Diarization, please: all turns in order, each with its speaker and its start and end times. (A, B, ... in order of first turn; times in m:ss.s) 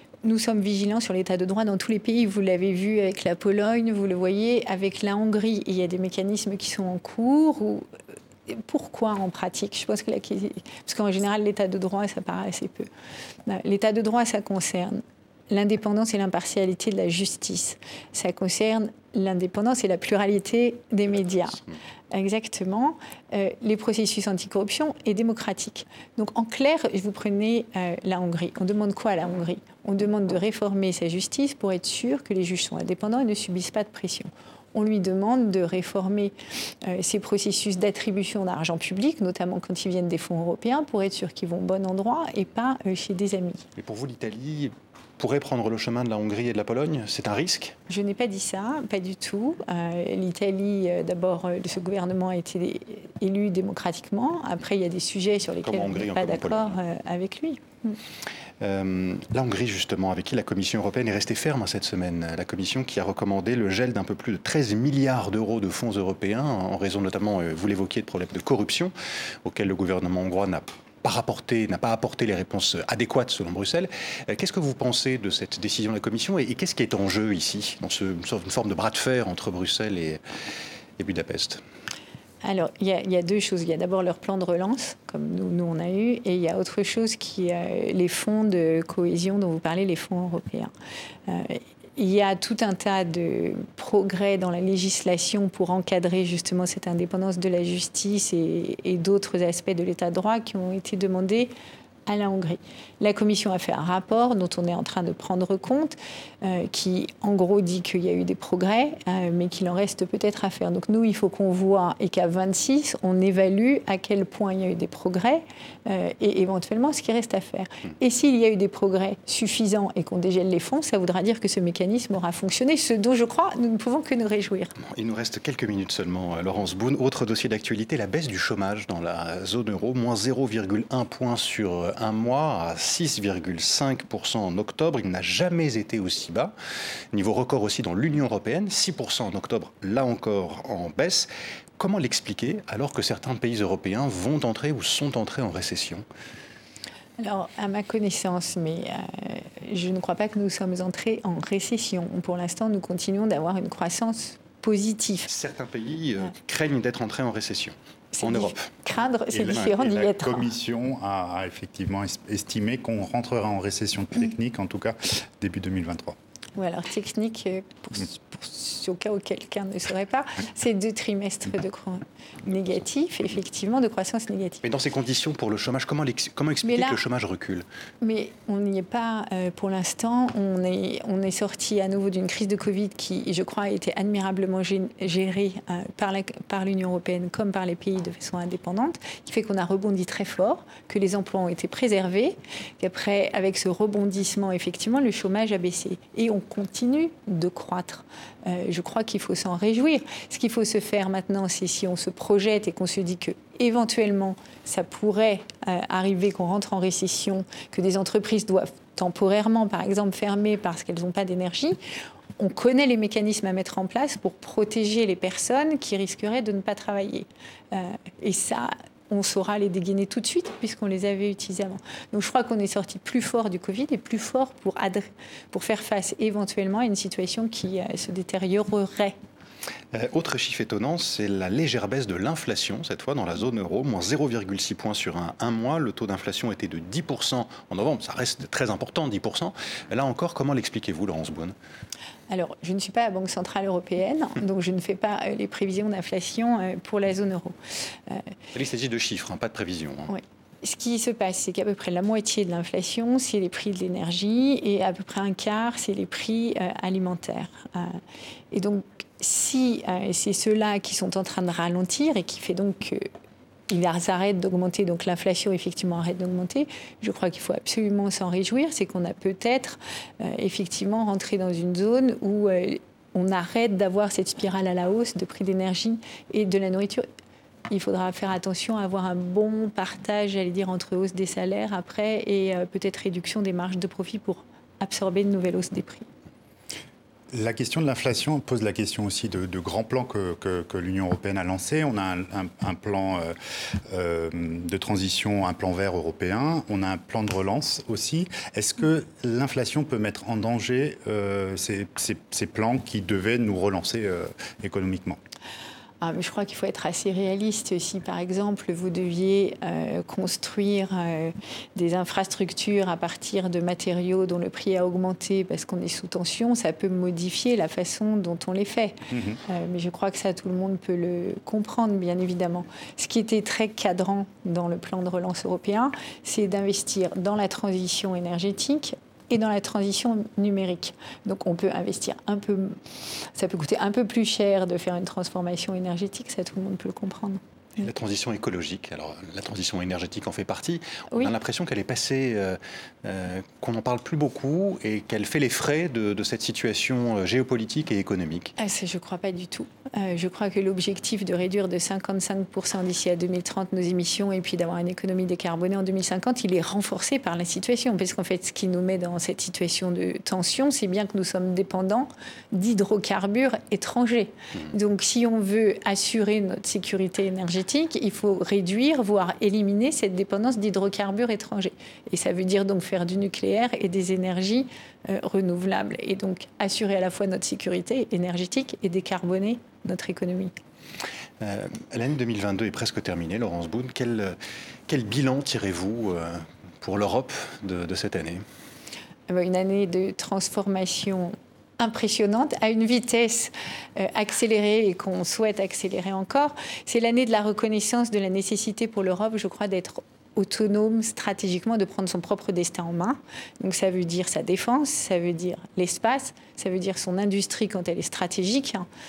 0:00.2-0:07.9 A
0:08.5-0:12.9 A
0:13.5-0:21.6 A
0:22.1-0:43.6 A
0:43.8-0:47.8 B
0:47.9-0:58.0 A
0:55.6-0:56.8 B
0:58.6-1:20.2 B
1:21.0-1:21.6 B
1:22.4-1:30.7 A
1:31.3-1:41.5 A
1:42.1-2:04.7 A
2:04.8-2:16.5 B
2:17.1-2:26.0 B
2:27.2-2:35.3 A
2:35.3-2:38.7 B
2:38.1-2:40.5 A
2:39.3-2:46.2 C
2:46.6-2:54.6 A
2:54.6-2:57.6 B
2:56.6-2:57.0 A
2:58.0-3:31.8 A
3:32.4-3:49.2 A
3:49.9-4:01.6 B
4:02.3-4:07.6 A
4:08.5-4:10.1 B
4:10.1-4:18.0 A
4:18.5-4:23.1 A
4:23.7-4:37.0 A
4:37.7-4:46.1 A
4:47.3-4:53.4 C
4:53.9-5:05.2 C
5:06.0-5:32.8 A
5:19.1-5:19.4 C
5:33.4-5:37.4 A
5:37.8-5:48.5 B
5:48.6-6:20.5 A
6:21.4-6:24.4 B
6:24.9-6:28.4 B
6:29.3-6:48.9 A